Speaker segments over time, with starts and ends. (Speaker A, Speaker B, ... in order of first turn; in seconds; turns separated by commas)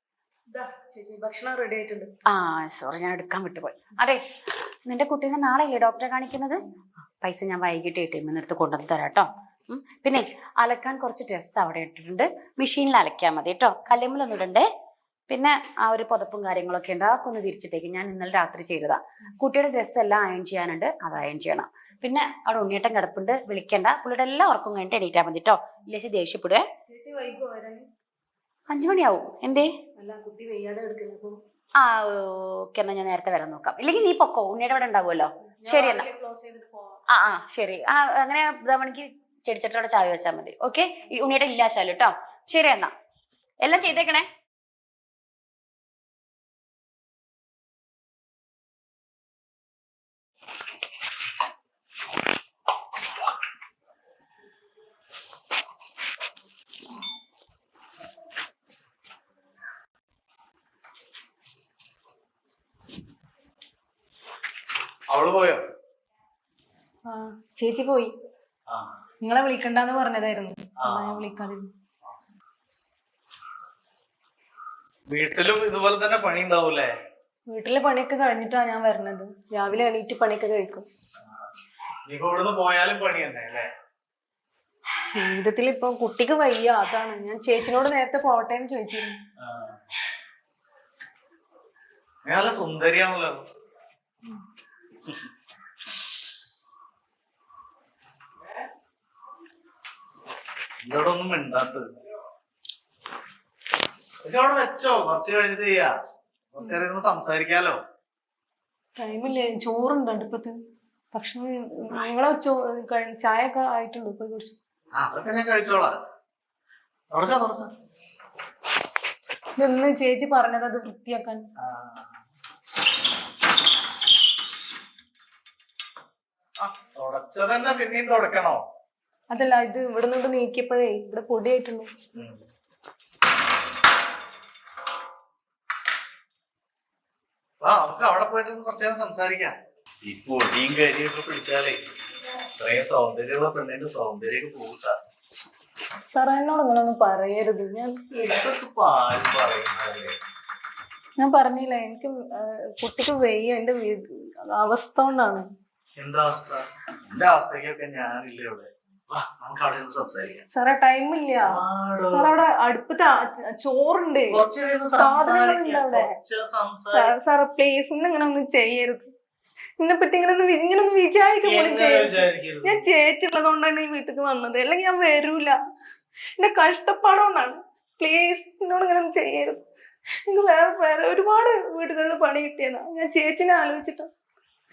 Speaker A: 0.5-2.1, Speaker B: 2.3-4.2, Speaker B: 4.9-6.6, Speaker B: 7.2-14.7, Speaker B: 15.3-26.6, Speaker A: 26.9-27.9, Speaker B: 28.7-29.6, Speaker A: 30.0-31.4, Speaker B: 31.8-36.0, Speaker A: 35.6-37.0, Speaker B: 37.1-42.9, Speaker B: 43.6-44.3, Speaker C: 65.1-65.7, Speaker A: 67.1-68.1, Speaker A: 69.2-71.7, Speaker C: 70.8-71.3, Speaker C: 75.1-76.9, Speaker A: 77.5-80.9, Speaker C: 82.1-83.7, Speaker A: 85.1-89.2, Speaker C: 89.4-89.8, Speaker C: 92.2-93.4, Speaker C: 100.8-101.8, Speaker C: 104.2-105.9, Speaker C: 106.5-107.8, Speaker A: 109.0-110.6, Speaker A: 111.1-114.6, Speaker C: 114.9-116.0, Speaker C: 117.1-117.7, Speaker A: 119.6-121.5, Speaker C: 121.6-122.1, Speaker C: 126.6-128.6, Speaker A: 129.3-131.9, Speaker C: 132.1-132.4, Speaker C: 137.6-141.8, Speaker C: 142.6-145.0, Speaker A: 146.1-148.1, Speaker C: 148.1-150.2, Speaker A: 151.2-155.5, Speaker C: 156.0-160.4, Speaker A: 160.5-161.6, Speaker C: 161.5-162.4, Speaker A: 162.1-166.1, Speaker C: 164.3-167.1, Speaker A: 166.9-169.1, Speaker A: 169.8-175.6, Speaker C: 171.4-172.9, Speaker A: 176.4-179.6, Speaker A: 180.3-184.1